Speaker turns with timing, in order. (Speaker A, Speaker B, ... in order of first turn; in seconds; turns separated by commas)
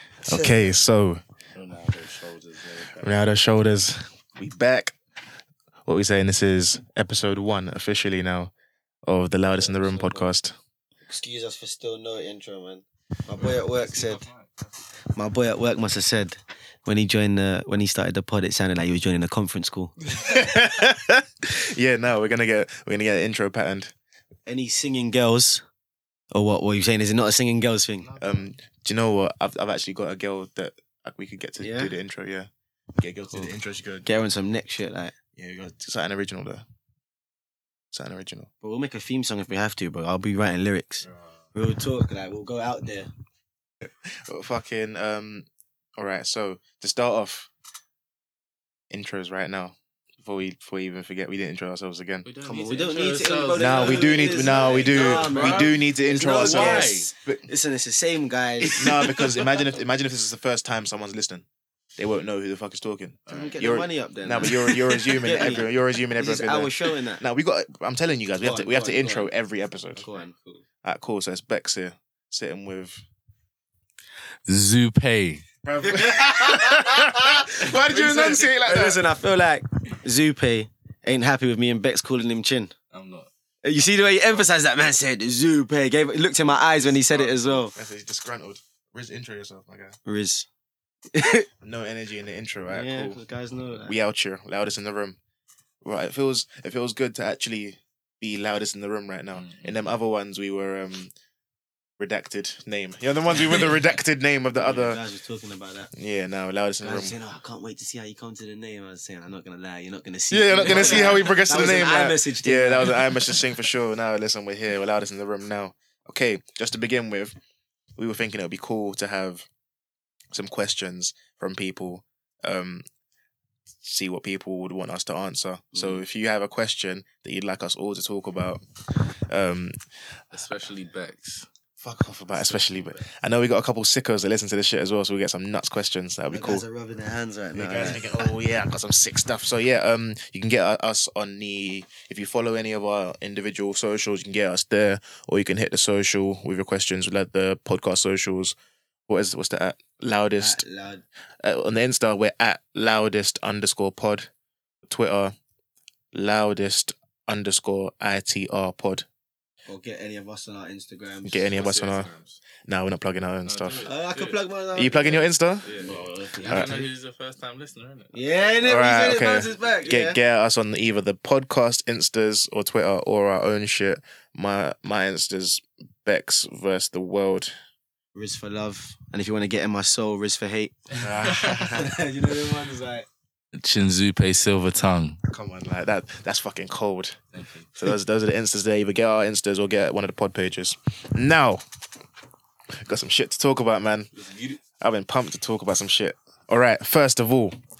Speaker A: 0.2-1.2, Speaker B: 0.3-0.6, Speaker C: 1.5-3.2, Speaker A: 2.9-5.0, Speaker A: 5.8-8.5, Speaker A: 9.1-10.6, Speaker B: 9.6-10.2, Speaker B: 11.1-14.2, Speaker C: 13.4-14.7, Speaker B: 15.1-19.9, Speaker A: 20.1-23.9, Speaker B: 24.5-25.6, Speaker B: 26.3-28.1, Speaker C: 28.0-28.5, Speaker A: 28.2-34.1, Speaker B: 31.6-31.9, Speaker B: 34.0-35.2, Speaker A: 35.4-36.6, Speaker A: 37.9-38.5, Speaker B: 38.6-43.1, Speaker A: 44.0-45.5, Speaker A: 46.0-47.5, Speaker A: 48.9-52.2, Speaker C: 52.2-57.1, Speaker B: 52.4-58.8, Speaker A: 53.5-57.5, Speaker C: 58.6-59.5, Speaker A: 58.8-61.4, Speaker A: 62.0-70.0, Speaker C: 63.3-63.7, Speaker B: 63.3-67.2, Speaker C: 64.4-64.7, Speaker B: 68.4-69.3, Speaker B: 69.9-70.6, Speaker A: 70.8-73.0, Speaker C: 74.5-75.4, Speaker A: 75.6-79.0, Speaker B: 75.8-82.7, Speaker C: 82.9-83.3, Speaker B: 83.6-87.7, Speaker A: 87.1-90.0, Speaker B: 90.0-90.5, Speaker B: 91.1-91.5, Speaker A: 91.6-93.2, Speaker B: 92.7-94.0, Speaker A: 93.8-95.2, Speaker A: 95.8-101.1, Speaker C: 99.3-99.9, Speaker A: 102.0-105.0, Speaker B: 104.5-105.9, Speaker A: 105.9-107.1, Speaker B: 106.8-113.3, Speaker A: 110.3-117.3, Speaker C: 110.6-111.4, Speaker A: 118.0-119.5, Speaker A: 120.3-122.8, Speaker A: 123.8-128.6, Speaker B: 125.7-126.0, Speaker A: 129.3-129.7, Speaker C: 130.3-131.5, Speaker A: 131.8-136.6, Speaker C: 132.3-133.0, Speaker B: 136.3-138.3, Speaker A: 137.5-148.6, Speaker A: 149.1-150.6, Speaker B: 150.4-151.0, Speaker A: 151.4-154.3, Speaker A: 154.9-155.3, Speaker A: 156.1-159.1, Speaker B: 159.7-161.7, Speaker A: 161.2-162.1, Speaker C: 161.5-162.4, Speaker A: 162.6-163.9, Speaker C: 163.4-164.4, Speaker B: 163.8-165.2, Speaker A: 164.8-165.7, Speaker C: 165.6-168.6, Speaker B: 165.8-166.9, Speaker A: 166.5-166.8, Speaker B: 168.1-170.2, Speaker A: 168.6-177.5, Speaker B: 178.1-180.8, Speaker C: 181.0-181.7, Speaker A: 181.0-181.9, Speaker B: 181.4-183.1, Speaker C: 183.5-185.2, Speaker A: 185.3-187.2, Speaker C: 187.3-187.7, Speaker A: 187.7-191.6, Speaker A: 192.8-194.1, Speaker C: 194.1-194.6, Speaker A: 194.8-197.6